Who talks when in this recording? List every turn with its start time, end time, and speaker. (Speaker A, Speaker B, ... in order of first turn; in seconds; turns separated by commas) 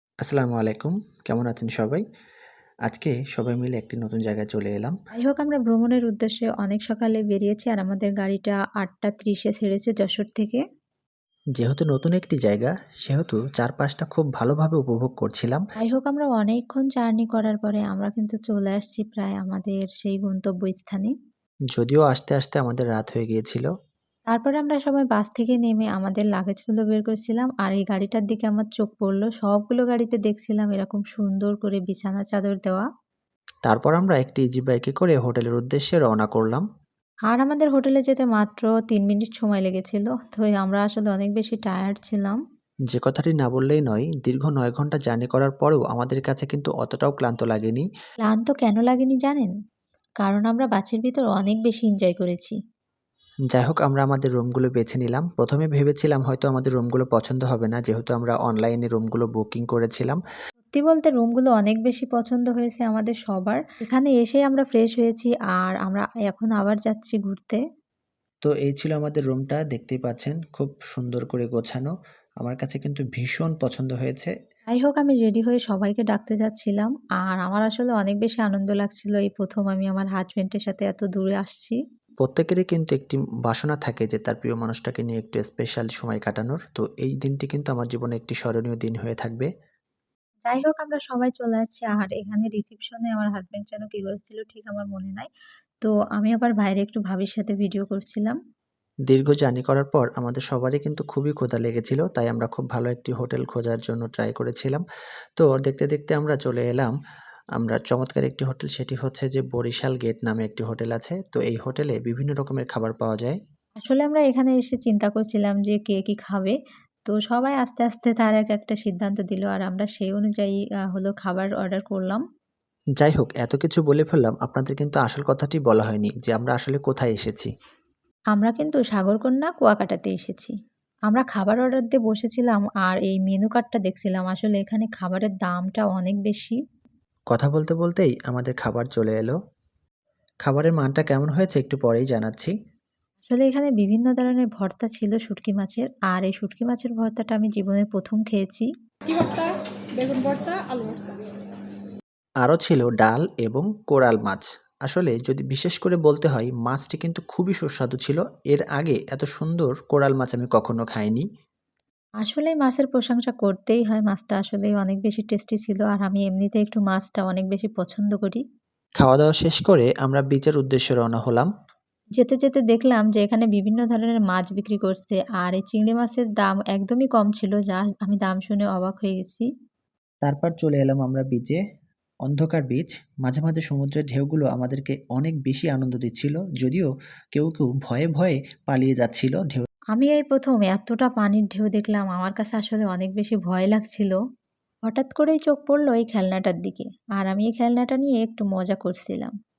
Speaker A: 0.2-2.0, Speaker A: 2.9-5.0, Speaker B: 5.2-10.6, Speaker A: 11.6-15.6, Speaker B: 15.8-21.1, Speaker A: 21.7-23.7, Speaker B: 24.3-32.9, Speaker A: 33.7-36.6, Speaker B: 37.3-42.4, Speaker A: 42.9-47.9, Speaker B: 48.2-49.5, Speaker B: 50.2-52.5, Speaker A: 53.5-60.2, Speaker B: 60.7-67.6, Speaker A: 68.5-71.9, Speaker A: 72.4-74.3, Speaker B: 74.7-81.8, Speaker A: 82.2-89.5, Speaker B: 90.5-95.3, Speaker B: 95.8-98.4, Speaker A: 99.1-104.8, Speaker A: 105.4-106.9, Speaker A: 107.6-113.4, Speaker B: 113.8-122.2, Speaker A: 123.0-127.5, Speaker B: 128.3-130.5, Speaker B: 131.1-136.6, Speaker A: 137.3-139.3, Speaker A: 140.4-142.5, Speaker B: 143.3-148.7, Speaker C: 149.1-151.0, Speaker A: 152.4-161.2, Speaker B: 162.2-168.4, Speaker A: 169.0-171.5, Speaker B: 172.2-179.5, Speaker A: 180.2-181.6, Speaker A: 182.2-189.7, Speaker B: 189.9-194.2, Speaker B: 194.8-199.3